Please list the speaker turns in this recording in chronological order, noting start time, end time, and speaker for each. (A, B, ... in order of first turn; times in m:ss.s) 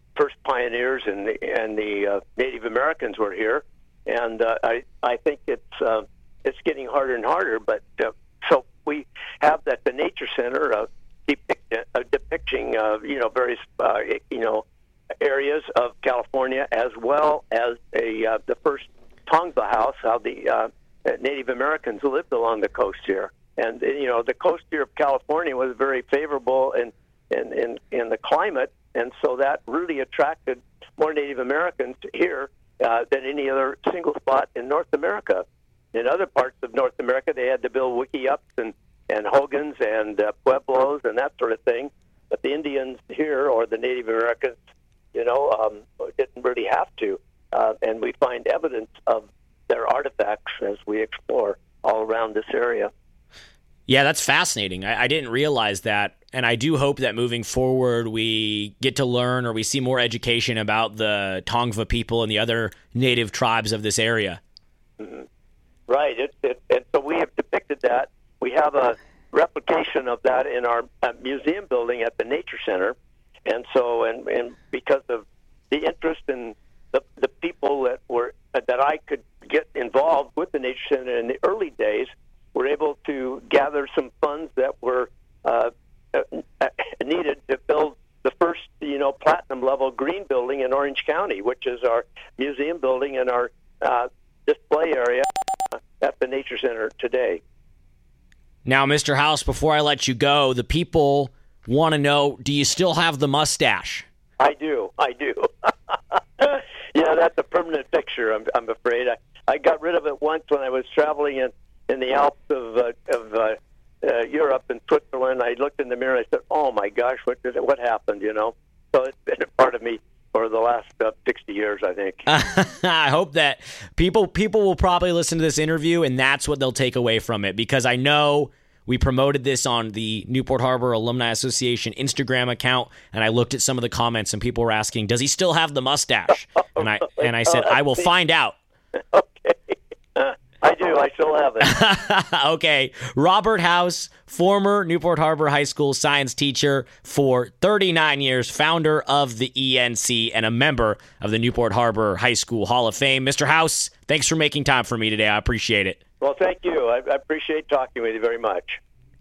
0:00.2-0:14.6 A
0:15.2-0:44.6 A
0:45.1-0:52.9 A
0:53.9-1:04.4 B
1:05.0-1:05.3 A
1:05.9-1:35.3 A
1:36.0-1:37.4 A
1:38.7-1:44.0 B
1:44.4-2:02.2 A
2:02.3-2:18.6 B
2:16.8-2:18.1 A
2:19.1-2:21.7 A
2:21.6-2:36.0 B
2:36.2-2:38.8 A